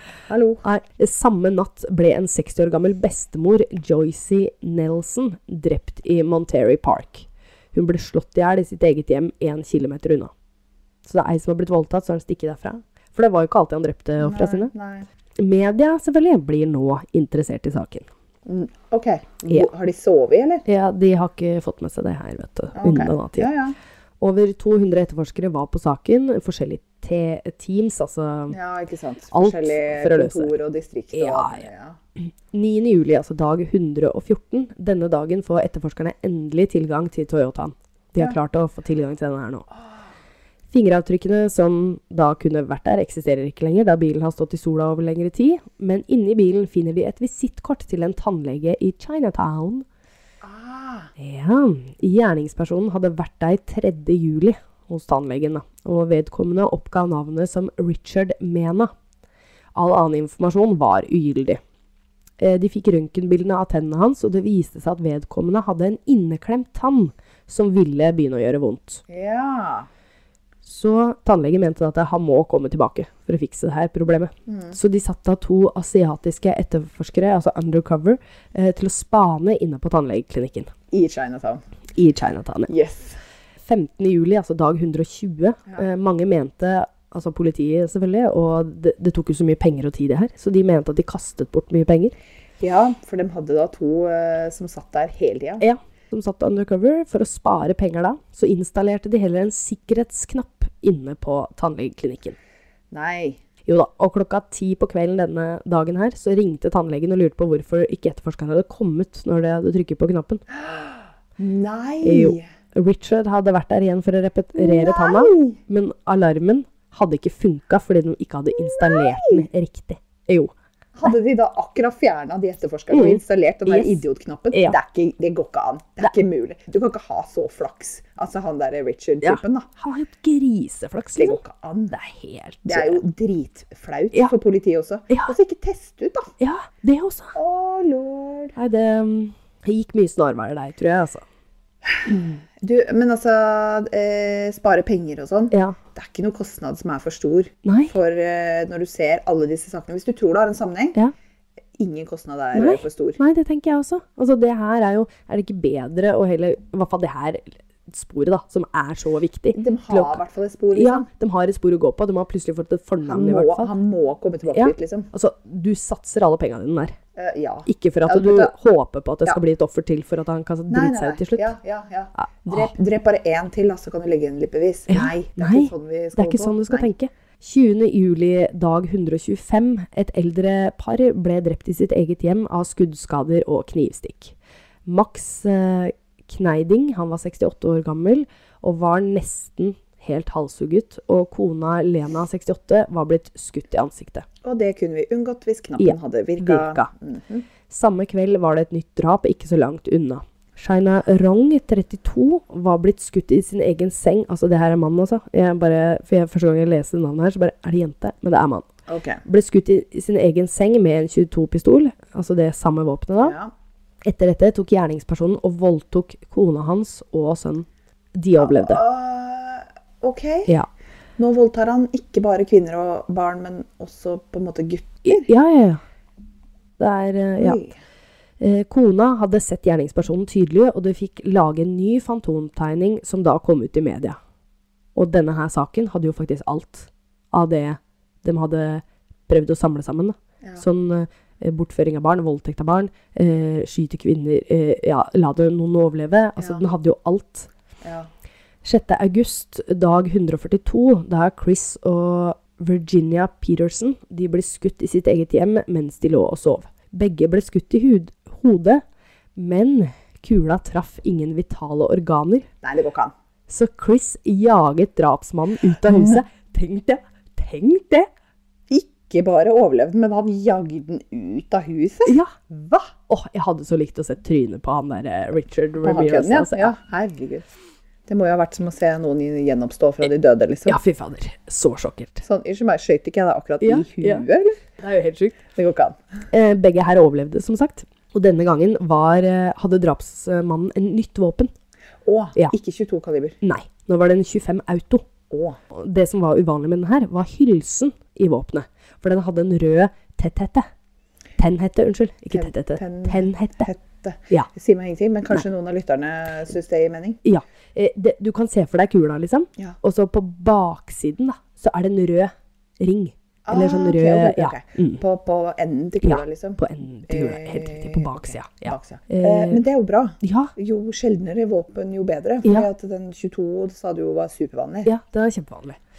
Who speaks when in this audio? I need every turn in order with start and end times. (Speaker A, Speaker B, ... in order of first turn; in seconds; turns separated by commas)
Speaker A: 0.3-0.6, Speaker B: 0.6-10.3, Speaker B: 11.1-14.7, Speaker A: 14.2-15.1, Speaker B: 15.4-18.1, Speaker A: 18.5-20.6, Speaker B: 20.6-23.5, Speaker A: 22.8-23.8, Speaker B: 24.2-28.6, Speaker A: 28.5-32.0, Speaker B: 29.3-30.5, Speaker B: 31.1-31.6, Speaker B: 32.2-39.7, Speaker B: 40.7-49.9, Speaker A: 50.4-51.1, Speaker B: 51.2-58.9, Speaker B: 59.8-61.6, Speaker B: 62.4-69.0, Speaker A: 69.1-69.9, Speaker B: 70.7-80.7, Speaker A: 74.5-74.8, Speaker A: 80.9-81.6, Speaker B: 82.0-82.7, Speaker A: 82.7-83.2, Speaker B: 83.7-92.2, Speaker A: 92.6-95.6, Speaker B: 95.6-102.4, Speaker A: 102.9-103.4, Speaker B: 103.7-110.4, Speaker A: 110.5-112.5, Speaker B: 112.0-120.5, Speaker A: 114.5-115.6, Speaker A: 118.7-119.4, Speaker A: 121.0-129.7, Speaker B: 122.9-124.0, Speaker B: 124.5-124.8, Speaker B: 129.2-131.4, Speaker A: 131.1-131.9, Speaker B: 131.9-133.0, Speaker A: 132.7-136.3, Speaker B: 136.4-137.4, Speaker A: 137.3-138.6, Speaker B: 138.6-141.2, Speaker A: 141.9-151.0, Speaker B: 145.5-145.8, Speaker B: 147.6-147.9, Speaker A: 151.8-153.2, Speaker B: 152.6-160.2, Speaker A: 159.5-161.1, Speaker B: 160.7-163.7, Speaker A: 163.1-165.1, Speaker B: 164.5-167.0, Speaker A: 167.2-168.5, Speaker B: 167.7-171.5, Speaker A: 170.7-176.9, Speaker B: 172.2-172.7, Speaker B: 174.9-184.3, Speaker B: 184.9-194.3, Speaker A: 194.4-197.5, Speaker B: 195.8-196.9, Speaker B: 197.7-208.7, Speaker A: 208.9-209.2, Speaker B: 209.2-213.4, Speaker A: 213.2-213.5, Speaker B: 214.1-218.8, Speaker A: 218.4-220.5, Speaker A: 221.2-225.3, Speaker B: 225.1-225.8, Speaker B: 226.8-227.6, Speaker A: 227.4-227.8, Speaker B: 228.4-234.2, Speaker B: 234.9-247.5, Speaker A: 246.4-246.6, Speaker A: 247.8-248.1, Speaker B: 248.6-258.8, Speaker B: 259.4-262.5, Speaker A: 262.6-263.1, Speaker B: 263.5-268.1, Speaker A: 265.8-266.2, Speaker A: 268.7-272.9, Speaker B: 272.1-272.3, Speaker B: 273.1-276.7, Speaker A: 275.8-277.5, Speaker A: 278.1-280.8, Speaker B: 280.7-282.2, Speaker A: 282.2-284.6, Speaker B: 283.6-284.2, Speaker B: 284.8-285.4, Speaker A: 285.5-286.0, Speaker B: 286.3-291.5, Speaker A: 292.1-293.4, Speaker B: 293.4-295.1, Speaker A: 295.3-295.6, Speaker B: 295.7-300.7, Speaker B: 301.4-303.7, Speaker A: 302.3-307.2, Speaker B: 307.2-315.0, Speaker A: 313.5-324.9, Speaker B: 316.0-319.6, Speaker B: 320.2-320.5, Speaker B: 324.9-325.8